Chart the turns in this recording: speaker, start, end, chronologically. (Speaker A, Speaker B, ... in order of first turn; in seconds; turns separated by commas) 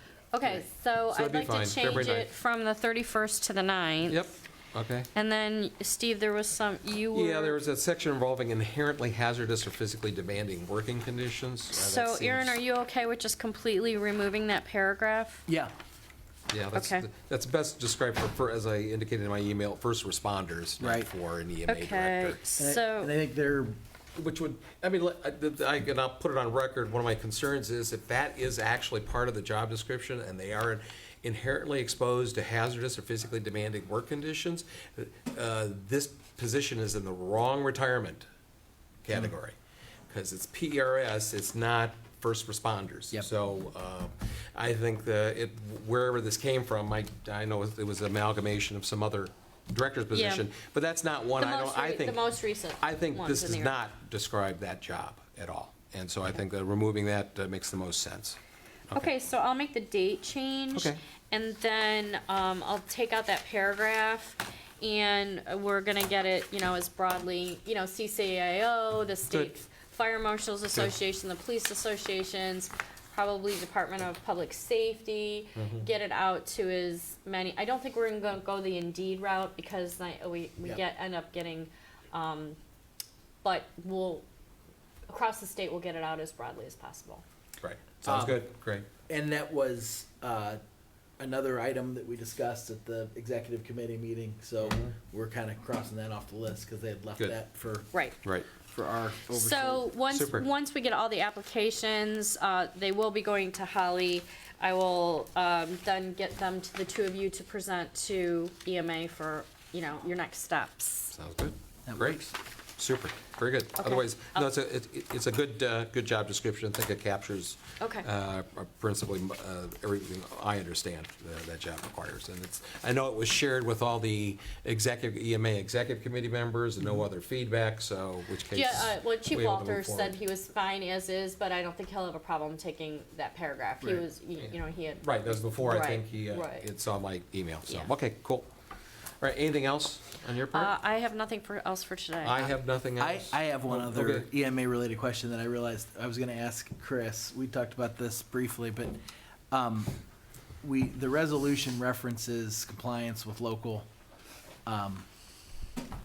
Speaker A: 0.3-4.2, Speaker B: 0.4-2.3, Speaker B: 4.0-5.1, Speaker A: 5.1-7.6, Speaker B: 7.1-12.6, Speaker A: 11.7-15.5, Speaker C: 15.5-15.7, Speaker B: 16.5-22.4, Speaker A: 16.7-17.1, Speaker C: 20.8-21.1, Speaker A: 21.7-23.1, Speaker C: 22.6-23.8, Speaker B: 24.1-38.2, Speaker B: 39.0-39.5, Speaker B: 40.1-58.4, Speaker A: 50.1-50.5, Speaker A: 51.4-53.8, Speaker A: 58.9-82.6, Speaker B: 60.7-61.0, Speaker B: 75.5-75.9, Speaker A: 83.4-84.2, Speaker A: 85.1-87.2, Speaker B: 87.6-88.9, Speaker C: 88.0-88.5, Speaker C: 89.1-90.6, Speaker C: 91.2-97.9, Speaker B: 94.6-94.9, Speaker B: 98.2-98.5, Speaker C: 98.6-99.9, Speaker A: 99.3-111.1, Speaker B: 100.1-100.5, Speaker B: 111.1-130.2, Speaker C: 111.9-112.3, Speaker A: 113.8-114.5, Speaker A: 117.8-118.1, Speaker A: 128.5-136.7, Speaker B: 135.0-138.5, Speaker B: 139.2-140.7, Speaker A: 140.5-142.5, Speaker B: 142.2-144.3, Speaker C: 143.0-149.0, Speaker C: 149.5-149.9, Speaker C: 150.6-153.9, Speaker C: 154.6-155.0